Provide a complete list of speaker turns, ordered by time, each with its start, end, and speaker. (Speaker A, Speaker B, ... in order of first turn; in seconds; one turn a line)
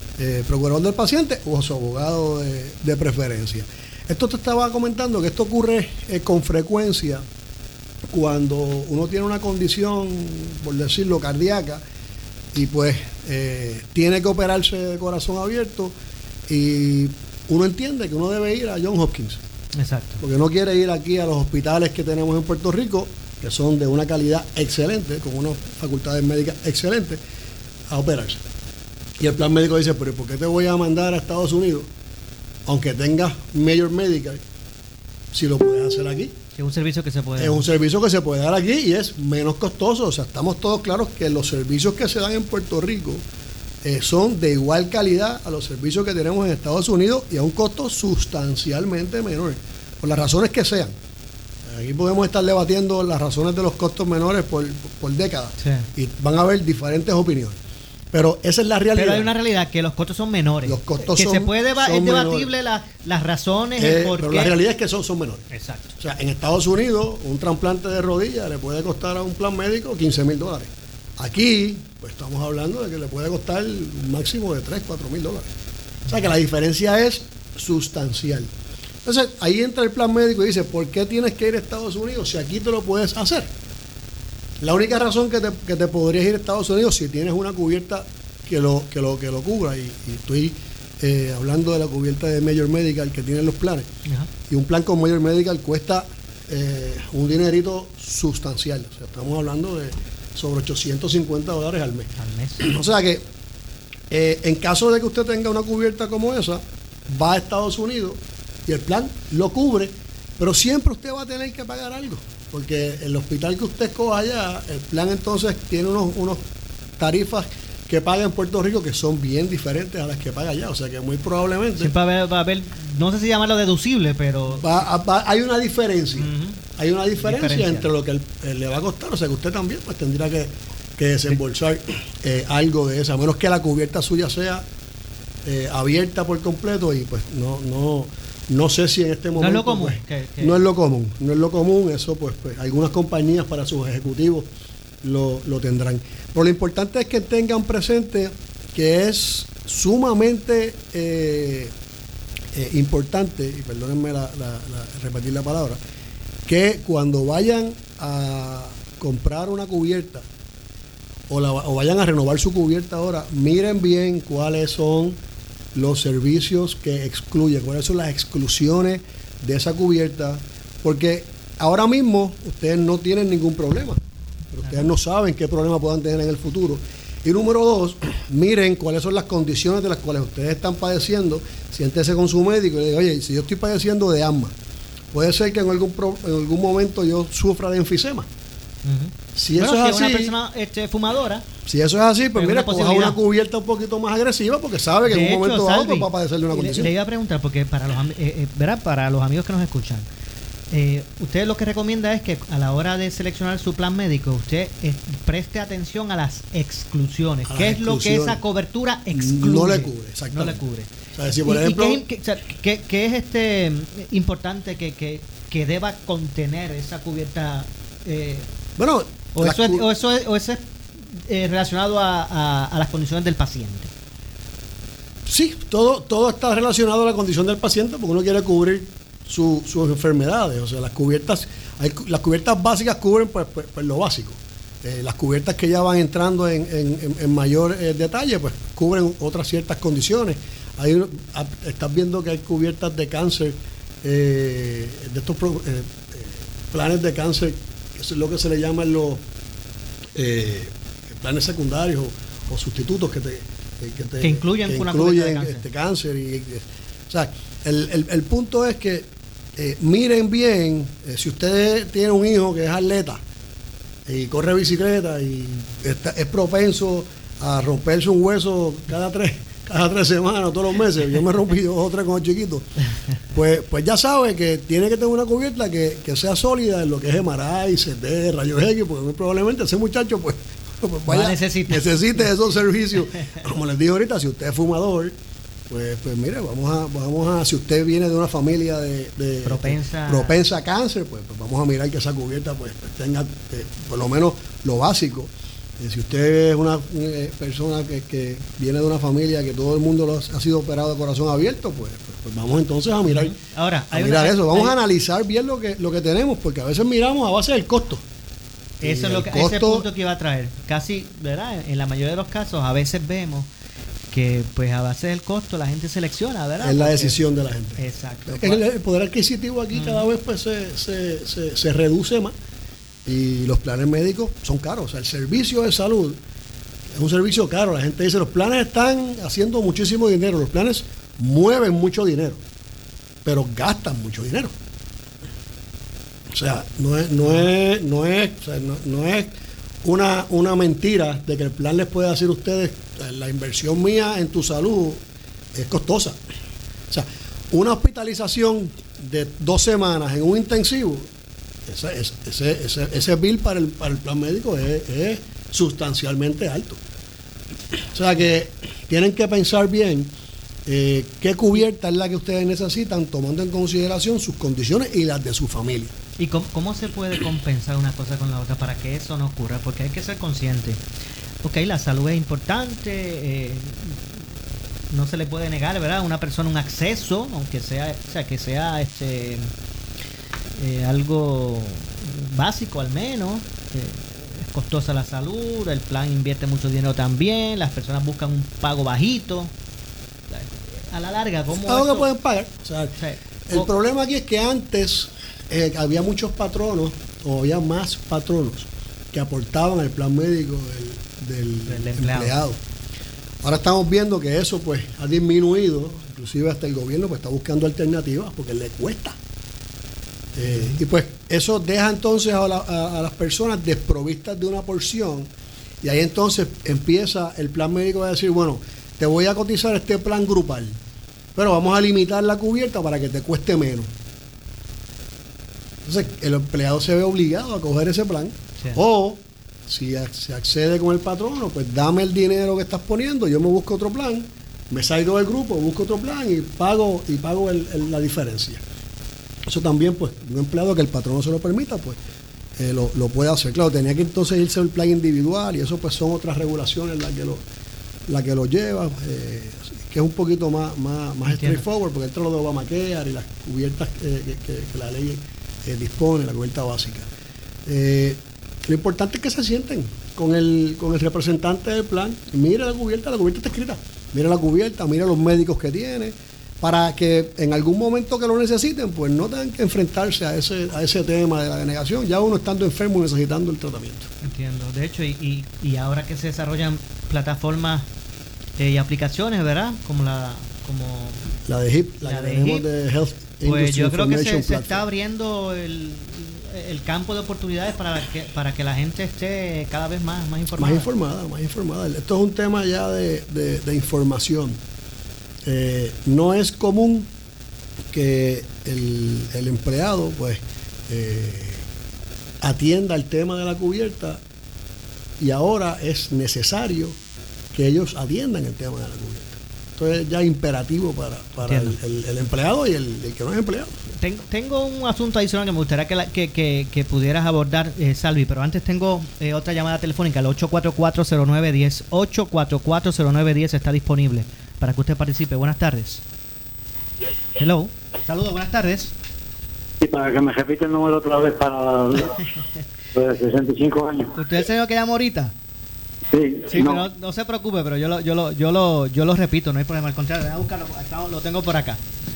Speaker A: 0.2-7.2
Speaker A: 8.1-11.8
Speaker A: 12.5-15.9
Speaker A: 16.5-19.4
Speaker B: 19.8-20.2
Speaker A: 20.2-27.2
Speaker A: 27.9-28.4
Speaker A: 29.2-31.9
Speaker A: 32.6-34.4
Speaker A: 35.3-36.3
Speaker B: 36.6-37.6
Speaker A: 37.4-43.2
Speaker A: 43.8-50.9
Speaker A: 51.6-57.6
Speaker B: 55.6-55.9
Speaker A: 58.1-59.3
Speaker B: 58.9-64.6
Speaker A: 60.6-62.5
Speaker A: 63.8-75.5
Speaker B: 65.5-65.9
Speaker A: 76.1-78.5
Speaker A: 79.0-83.5
Speaker A: 84.6-93.9
Speaker B: 94.0-94.3
Speaker A: 94.5-103.2
Speaker B: 102.2-102.8
Speaker A: 104.1-116.4
Speaker A: 117.0-121.9
Speaker B: 121.8-124.8
Speaker A: 124.5-134.7
Speaker B: 126.2-126.6
Speaker B: 127.2-127.9
Speaker A: 135.4-144.5
Speaker B: 139.4-140.6
Speaker A: 145.0-151.7
Speaker A: 152.5-155.8
Speaker A: 156.5-160.2
Speaker A: 161.3-165.2
Speaker A: 165.7-174.0
Speaker A: 174.5-184.5
Speaker A: 185.1-188.3
Speaker B: 188.8-191.5
Speaker A: 189.3-190.3
Speaker A: 191.7-196.9
Speaker B: 192.3-193.2
Speaker B: 195.1-200.1
Speaker B: 200.7-218.5
Speaker A: 207.5-208.4
Speaker A: 209.1-212.0
Speaker A: 218.8-219.9
Speaker B: 219.3-220.6
Speaker B: 221.1-223.9
Speaker A: 225.2-249.2
Speaker A: 250.1-263.2
Speaker B: 254.2-255.6
Speaker A: 264.1-272.7
Speaker A: 273.3-285.1
Speaker B: 281.1-282.2
Speaker A: 285.7-303.4
Speaker B: 289.4-290.3
Speaker B: 303.1-304.8
Speaker A: 303.9-308.0
Speaker A: 308.8-309.9
Speaker B: 308.8-313.5
Speaker B: 314.1-317.2
Speaker A: 316.6-322.3
Speaker B: 317.8-318.6
Speaker B: 319.7-320.1
Speaker A: 323.1-326.2
Speaker A: 326.9-332.4
Speaker A: 333.2-334.5
Speaker A: 336.3-339.3
Speaker A: 339.8-345.0
Speaker A: 345.5-346.2
Speaker A: 346.9-351.1
Speaker A: 351.6-356.8
Speaker A: 357.9-360.1
Speaker A: 360.6-365.9
Speaker B: 366.2-370.8
Speaker B: 371.4-374.0
Speaker B: 374.9-379.5
Speaker B: 380.6-389.5
Speaker B: 390.3-392.1
Speaker A: 391.5-402.6
Speaker B: 393.0-393.7
Speaker B: 401.7-402.4
Speaker A: 403.4-409.2
Speaker A: 410.4-415.3
Speaker B: 410.5-410.8
Speaker A: 415.8-420.8
Speaker A: 421.3-423.9
Speaker A: 425.8-438.6
Speaker A: 439.5-442.0
Speaker A: 442.6-447.4
Speaker A: 448.1-457.1
Speaker B: 451.2-451.6
Speaker A: 457.6-474.1
Speaker B: 474.2-477.9
Speaker B: 478.6-481.2
Speaker A: 481.4-484.8
Speaker B: 482.0-482.6
Speaker B: 483.4-490.9
Speaker A: 490.6-494.6
Speaker A: 495.4-497.1
Speaker A: 497.9-501.6
Speaker A: 502.4-504.2
Speaker A: 505.2-507.0
Speaker A: 507.5-513.7
Speaker B: 511.4-511.8
Speaker B: 514.0-526.0
Speaker B: 527.4-528.9
Speaker C: 529.8-532.3
Speaker C: 532.9-534.2
Speaker B: 534.2-535.3
Speaker C: 536.1-536.8
Speaker B: 536.5-541.8